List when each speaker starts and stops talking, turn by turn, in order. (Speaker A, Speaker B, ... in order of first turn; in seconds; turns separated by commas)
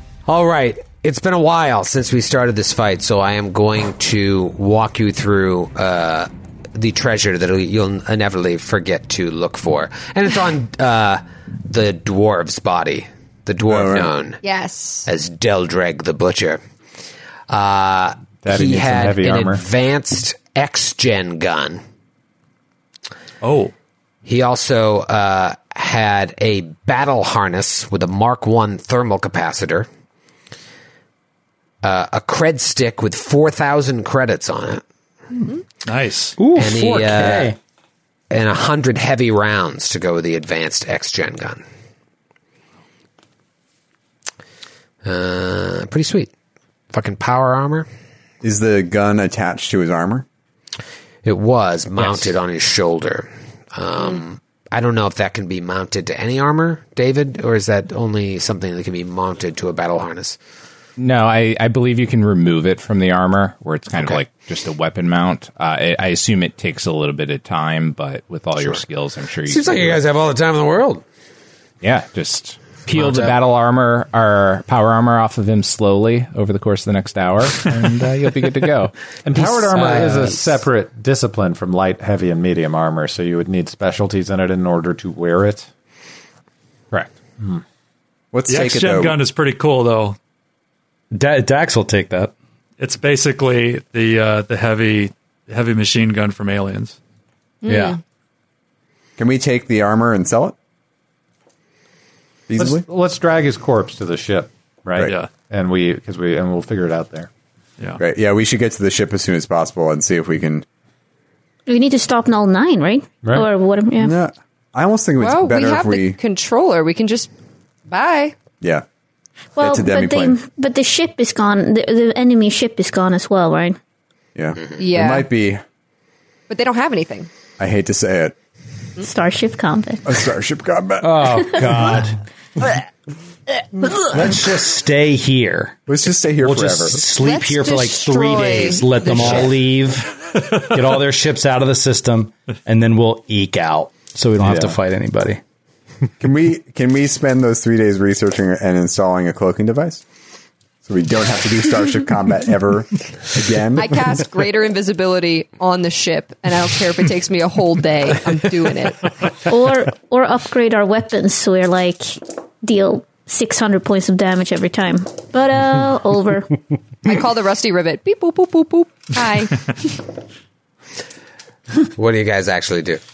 Speaker A: 0.3-14.4, Speaker B: 13.7-14.1, Speaker C: 14.4-15.1, Speaker A: 15.1-16.6, Speaker A: 17.5-21.8, Speaker D: 18.4-19.6, Speaker E: 23.4-23.7, Speaker A: 24.2-29.9, Speaker A: 31.8-34.8, Speaker E: 35.9-36.4, Speaker F: 36.4-37.6, Speaker A: 36.5-37.5, Speaker A: 38.3-41.6, Speaker A: 45.0-46.3, Speaker A: 46.9-47.9, Speaker B: 48.4-50.2, Speaker A: 51.2-60.4, Speaker G: 61.0-70.0, Speaker A: 63.9-64.2, Speaker A: 69.5-71.0, Speaker G: 71.8-78.9, Speaker A: 72.9-73.3, Speaker D: 79.2-85.7, Speaker A: 79.4-80.5, Speaker D: 86.9-87.6, Speaker B: 88.3-89.2, Speaker E: 88.5-90.2, Speaker F: 91.1-92.3, Speaker E: 92.8-97.0, Speaker C: 97.6-98.0, Speaker F: 97.7-98.0, Speaker B: 99.2-100.5, Speaker B: 102.5-102.8, Speaker D: 102.6-107.3, Speaker E: 105.0-105.3, Speaker B: 108.0-110.7, Speaker H: 111.7-114.1, Speaker B: 114.0-116.2, Speaker C: 115.2-117.3, Speaker C: 117.9-118.4, Speaker H: 119.6-123.8, Speaker B: 119.6-120.4, Speaker B: 124.3-125.6, Speaker C: 124.8-125.3, Speaker C: 126.5-127.3, Speaker B: 127.6-128.4, Speaker H: 129.0-130.1, Speaker B: 130.1-131.7, Speaker F: 131.0-132.2, Speaker F: 134.0-135.8, Speaker B: 135.9-137.0, Speaker F: 136.4-145.4, Speaker C: 137.1-139.6, Speaker D: 144.4-144.8, Speaker B: 146.2-150.0, Speaker B: 150.8-154.2, Speaker C: 153.8-159.1, Speaker H: 159.5-166.6, Speaker C: 167.1-170.0, Speaker A: 171.9-173.0